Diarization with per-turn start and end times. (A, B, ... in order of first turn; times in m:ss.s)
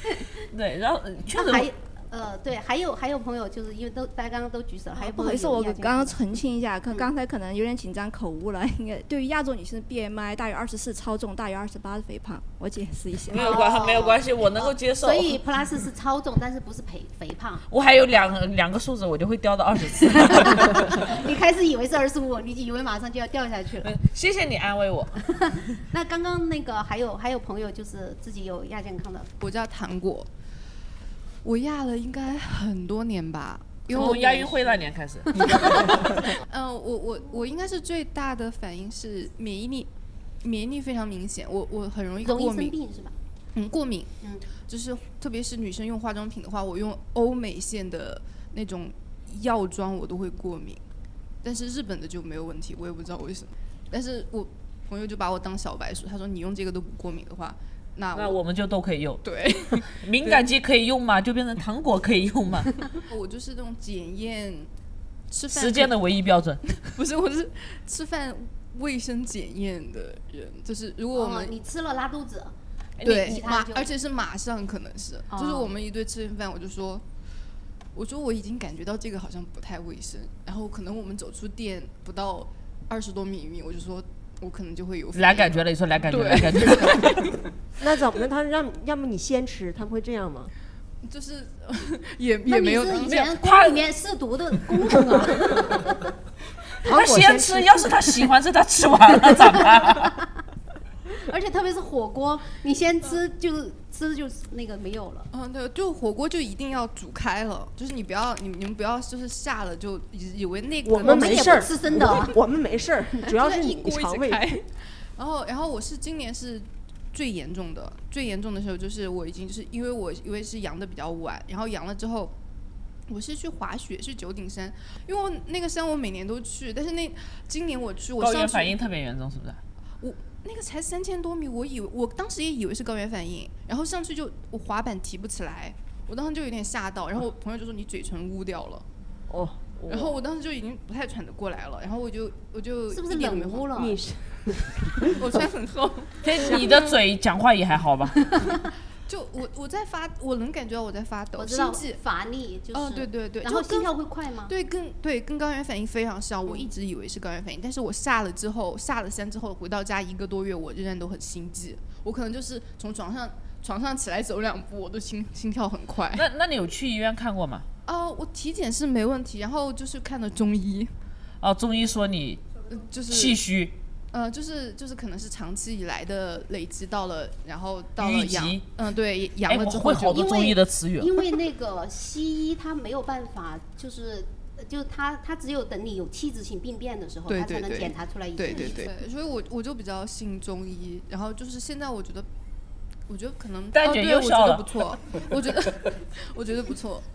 0:00.5-0:01.7 A
0:01.3-0:06.2 B
0:05.0-0:13.5 C
0:13.3-0:15.4 A
0:13.3-0:17.6 B
0:17.7-0:21.0 A
0:20.3-0:23.9 B
0:23.8-0:25.2 A
0:25.3-0:29.3 B
0:29.4-0:30.3 D
0:31.4-0:34.7 D
0:33.9-0:36.1 A
0:36.5-0:39.9 D
0:40.4-0:42.8 D
0:42.2-0:43.1 B
0:43.6-0:50.8 D
0:44.2-0:44.5 B
0:51.4-0:58.4 D
0:58.2-0:59.2 A
0:59.2-1:00.4 D
0:59.8-1:02.8 A
1:03.1-1:04.7 D
1:05.3-1:06.0 D
1:05.5-1:06.6 A
1:06.7-1:11.5 D
1:11.1-1:12.5 B
1:13.0-1:13.4 A
1:13.0-1:17.0 D
1:13.2-1:13.9 B
1:15.3-1:15.7 B
1:18.0-1:27.4 D
1:25.2-1:27.3 A
1:27.8-1:30.5 E
1:31.0-1:33.2 D
1:32.5-1:36.1 B
1:33.0-1:33.8 A
1:36.8-1:38.2 E
1:36.9-1:40.1 A
1:39.8-1:40.2 B
1:41.3-1:45.3 B
1:45.3-1:52.2 D
1:50.8-1:54.6 E
1:51.0-1:52.4 B
1:53.3-2:02.3 D
2:03.1-2:08.8 D
2:08.2-2:09.6 A
2:10.0-2:18.8 D
2:19.3-2:20.2 E
2:19.9-2:23.7 D
2:22.9-2:24.0 B
2:23.8-2:25.5 E
2:25.1-2:26.9 D
2:26.2-2:28.3 A
2:29.1-2:32.0 D
2:31.4-2:34.5 B
2:32.7-2:33.9 D
2:34.5-2:46.2 D
2:46.1-2:47.7 A
2:47.9-2:50.9 D
2:51.4-2:52.4 A
2:52.7-2:53.4 D
2:53.1-2:53.8 A
2:54.1-3:00.2 D
2:58.0-2:58.7 A
2:59.5-3:01.1 A
3:00.1-3:08.9 B
3:07.3-3:12.3 D
3:13.1-3:17.0 D
3:13.7-3:14.7 A